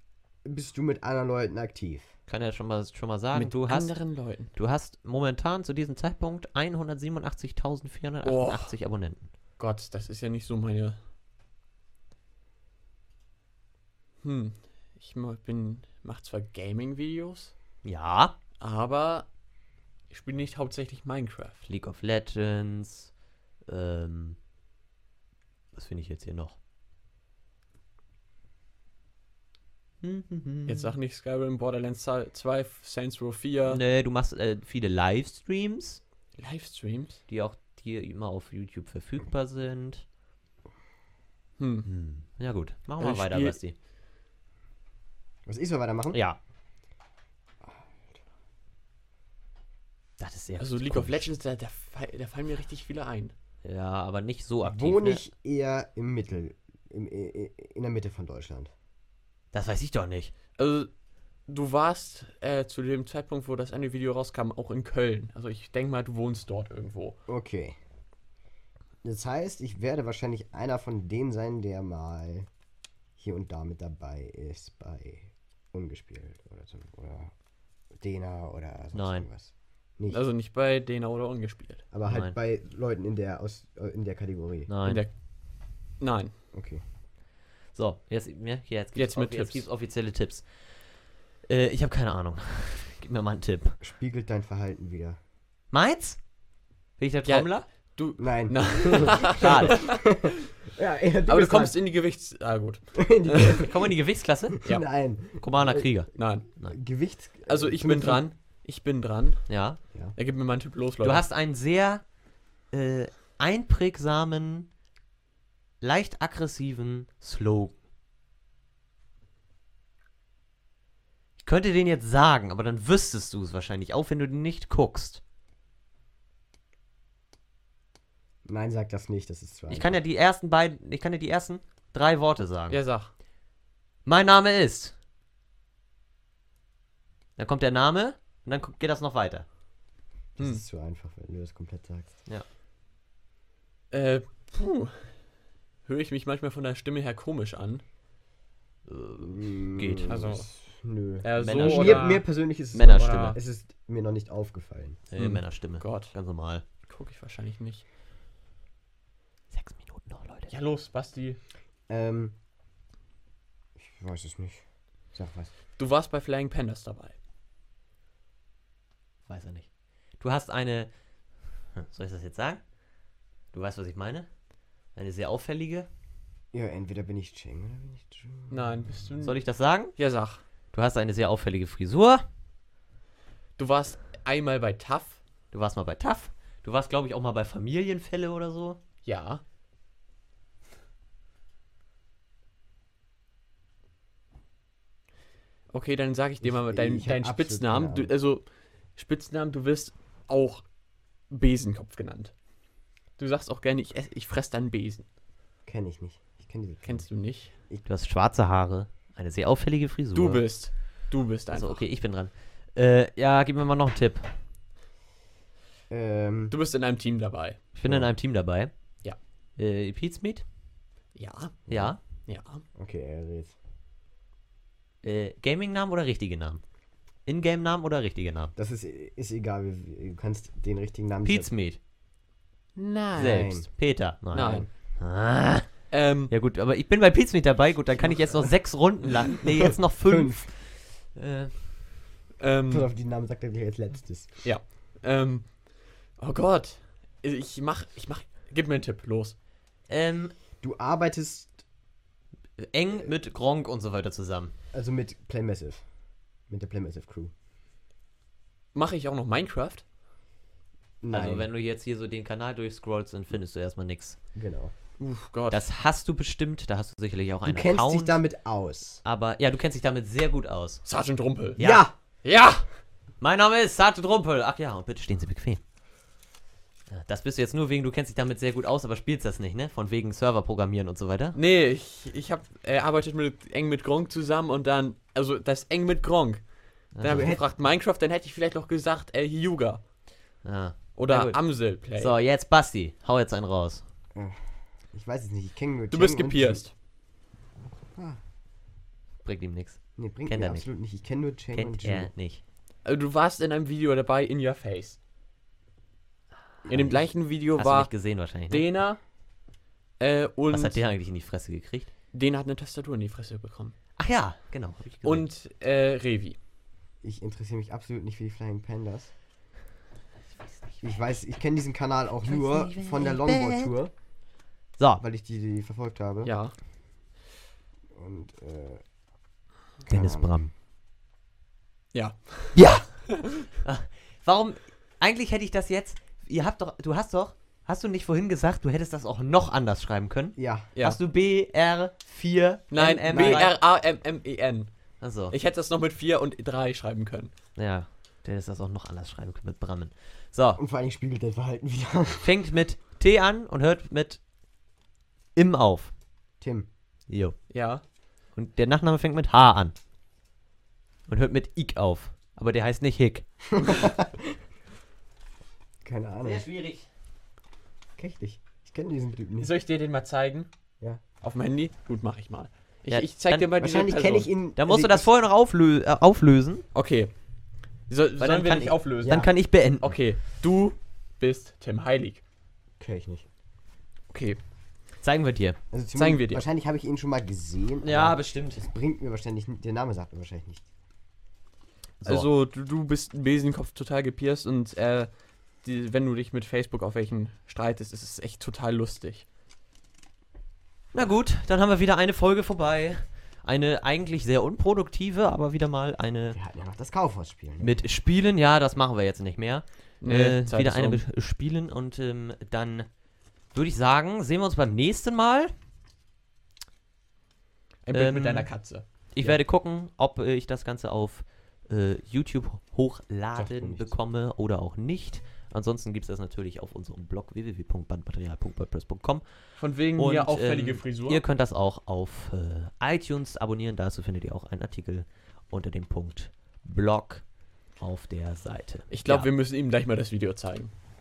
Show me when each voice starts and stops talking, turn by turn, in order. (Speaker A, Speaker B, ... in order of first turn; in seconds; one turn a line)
Speaker A: 0.5-2.1
Speaker B: 2.3-3.9
Speaker C: 3.3-4.5
Speaker B: 4.5-9.3
Speaker C: 8.2-8.7
Speaker C: 9.6-11.0
Speaker C: 14.2-17.5
Speaker B: 17.8-18.4
Speaker C: 18.6-19.3
Speaker C: 20.1-21.7
Speaker B: 21.7-23.1
Speaker B: 23.7-24.4
Speaker B: 25.7-26.6
Speaker B: 30.0-30.9
Speaker C: 30.7-33.8
Speaker B: 33.7-36.0
Speaker C: 36.4-37.2
Speaker B: 37.3-40.0
Speaker C: 41.6-41.9
Speaker B: 41.9-43.8
Speaker C: 43.0-43.6
Speaker A: 45.5-46.2
Speaker B: 46.1-46.4
Speaker B: 50.2-51.3
Speaker C: 50.6-53.3
Speaker B: 53.6-55.2
Speaker A: 54.6-58.7
Speaker B: 59.5-60.3
Speaker C: 60.6-60.9
Speaker C: 61.5-67.2
Speaker A: 67.3-67.8
Speaker A: 69.0-72.5
Speaker A: 73.2-77.3
Speaker A: 77.9-80.2
Speaker B: 78.9-79.3
Speaker C: 80.1-81.8
Speaker A: 81.9-84.7
Speaker B: 82.1-82.3
Speaker B: 84.7-85.0
Speaker C: 84.8-85.1
Speaker C: 86.0-86.3
Speaker A: 86.5-86.8
Speaker B: 87.7-90.5
Speaker C: 89.0-89.7
Speaker B: 91.5-93.8
Speaker A: 93.8-95.2
Speaker B: 95.7-96.2
Speaker B: 97.0-97.7
Speaker C: 97.2-100.3
Speaker A: 98.2-101.8
Speaker B: 99.4-99.8
Speaker C: 101.3-103.6
Speaker A: 103.0-103.8
Speaker B: 103.3-104.6
Speaker A: 104.5-105.9
Speaker B: 105.4-106.8
Speaker C: 106.2-106.5
Speaker A: 106.7-108.2
Speaker C: 107.5-109.5
Speaker B: 109.5-109.8
Speaker C: 110.2-111.2
Speaker B: 111.0-112.0
Speaker B: 112.7-114.7
Speaker B: 115.8-117.8
Speaker B: 121.4-125.2
Speaker A: 128.5-130.0
Speaker B: 129.7-132.8
Speaker C: 132.7-133.1
Speaker B: 134.1-134.9
Speaker B: 137.4-139.5
Speaker A: 140.4-142.2
Speaker C: 143.9-145.2
Speaker C: 145.9-147.8
Speaker B: 148.9-150.2
Speaker A: 149.2-155.0
Speaker C: 150.1-150.5
Speaker C: 151.2-152.2
Speaker B: 151.3-152.2
Speaker B: 152.7-153.4
Speaker C: 152.8-153.4
Speaker B: 155.1-156.6
Speaker C: 155.2-156.2
Speaker C: 156.8-157.8
Speaker B: 159.5-160.5
Speaker C: 160.5-161.4
Speaker A: 161.9-162.3
Speaker A: 163.8-164.6
Speaker A: 165.2-165.5
Speaker C: 165.8-167.2
Speaker B: 169.3-169.7
Speaker B: 170.2-170.9
Speaker B: 171.8-172.6
Speaker B: 173.5-174.3
Speaker B: 174.9-175.9
Speaker A: 176.5-179.1
Speaker C: 178.5-179.4
Speaker B: 179.2-180.0
Speaker C: 180.0-180.4
Speaker B: 180.7-182.2
Speaker C: 183.6-185.2
Speaker B: 185.5-188.8
Speaker C: 189.0-189.4
Speaker C: 195.7-198.4
Speaker A: 196.4-198.1
Speaker C: 199.0-200.7
Speaker C: 201.3-202.3
Speaker C: 203.2-205.1
Speaker A: 205.7-207.1
Speaker C: 206.8-207.5
Speaker B: 207.8-210.4
Speaker C: 210.2-211.8
Speaker B: 211.5-214.3
Speaker A: 215.9-216.6
Speaker C: 216.5-217.6
Speaker B: 217.8-218.7
Speaker A: 217.8-218.1
Speaker B: 219.6-220.4
Speaker C: 221.2-221.7
Speaker B: 221.7-222.0
Speaker C: 222.3-222.6
Speaker A: 222.8-223.6
Speaker B: 225.0-226.6
Speaker B: 227.3-228.5
Speaker A: 228.6-231.5
Speaker B: 231.2-231.8
Speaker C: 232.8-233.5
Speaker A: 233.2-233.7
Speaker B: 233.2-241.6
Speaker C: 234.3-234.7
Speaker C: 235.9-236.3
Speaker C: 238.0-238.4
Speaker A: 239.9-240.5
Speaker C: 242.4-242.9
Speaker A: 242.7-244.4
Speaker C: 244.4-249.3
Speaker B: 249.9-250.4
Speaker A: 250.6-251.6
Speaker B: 252.6-254.5
Speaker A: 254.7-255.8
Speaker A: 256.5-257.3
Speaker C: 258.7-259.8
Speaker A: 261.0-261.5
Speaker B: 261.1-264.2
Speaker A: 264.4-264.7
Speaker C: 265.0-265.6
Speaker B: 265.5-268.2
Speaker A: 267.5-269.0
Speaker B: 269.0-270.8
Speaker C: 270.9-271.6
Speaker B: 271.6-271.9
Speaker A: 271.6-271.9
Speaker C: 272.2-272.7
Speaker B: 273.2-275.6
Speaker B: 276.9-281.4
Speaker C: 281.3-289.8
Speaker B: 286.9-287.3
Speaker A: 287.1-287.4
Speaker B: 290.4-293.9
Speaker C: 290.9-292.1
Speaker A: 294.1-294.4
Speaker A: 294.9-296.7
Speaker C: 295.9-296.7
Speaker A: 297.9-298.2
Speaker B: 299.2-300.7
Speaker A: 300.0-302.1
Speaker B: 301.5-302.4
Speaker C: 302.9-305.0
Speaker B: 306.7-306.9
Speaker C: 306.7-307.9
Speaker B: 307.5-308.7
Speaker C: 308.5-309.0
Speaker C: 310.0-310.8
Speaker B: 310.5-311.9
Speaker C: 312.1-313.8
Speaker B: 314.0-315.3
Speaker C: 315.0-316.4
Speaker A: 317.0-319.1
Speaker A: 320.8-323.9
Speaker B: 322.2-323.7
Speaker A: 325.0-326.3
Speaker C: 326.2-326.5
Speaker A: 327.9-328.8
Speaker A: 329.9-330.3
Speaker B: 329.9-330.5
Speaker C: 331.9-333.5
Speaker B: 332.6-332.9
Speaker B: 333.6-343.6
Speaker A: 340.4-340.7
Speaker C: 342.7-344.7
Speaker A: 343.1-343.5
Speaker B: 345.0-345.4
Speaker C: 345.3-347.3
Speaker B: 347.6-350.6
Speaker A: 350.6-352.3
Speaker B: 352.2-354.2
Speaker B: 355.4-355.9
Speaker A: 356.4-356.7
Speaker B: 357.1-357.4
Speaker C: 357.5-357.8
Speaker B: 358.4-359.8
Speaker B: 361.1-363.7
Speaker A: 363.5-364.4
Speaker A: 365.8-366.4
Speaker B: 366.2-366.9
Speaker A: 368.0-369.5
Speaker C: 369.4-370.5
Speaker C: 371.2-374.3
Speaker B: 372.9-373.5
Speaker A: 373.6-375.1
Speaker B: 374.6-376.6
Speaker C: 376.7-377.1
Speaker C: 377.9-379.3
Speaker B: 378.2-380.0
Speaker A: 379.0-379.3
Speaker C: 379.8-382.2
Speaker A: 382.8-383.3
Speaker C: 384.1-384.4
Speaker B: 385.0-385.6
Speaker A: 385.7-390.6
Speaker C: 385.9-386.4
Speaker B: 387.8-388.7
Speaker B: 392.0-392.3
Speaker C: 392.1-395.1
Speaker C: 395.6-399.2
Speaker B: 400.9-406.4
Speaker A: 406.3-407.7
Speaker B: 407.6-412.9
Speaker C: 410.0-411.0
Speaker B: 413.5-415.5
Speaker C: 417.9-419.4
Speaker B: 417.9-418.5
Speaker B: 419.1-429.2
Speaker A: 423.4-423.9
Speaker C: 429.6-431.2
Speaker B: 429.9-437.2
Speaker B: 437.8-439.3
Speaker C: 438.9-440.7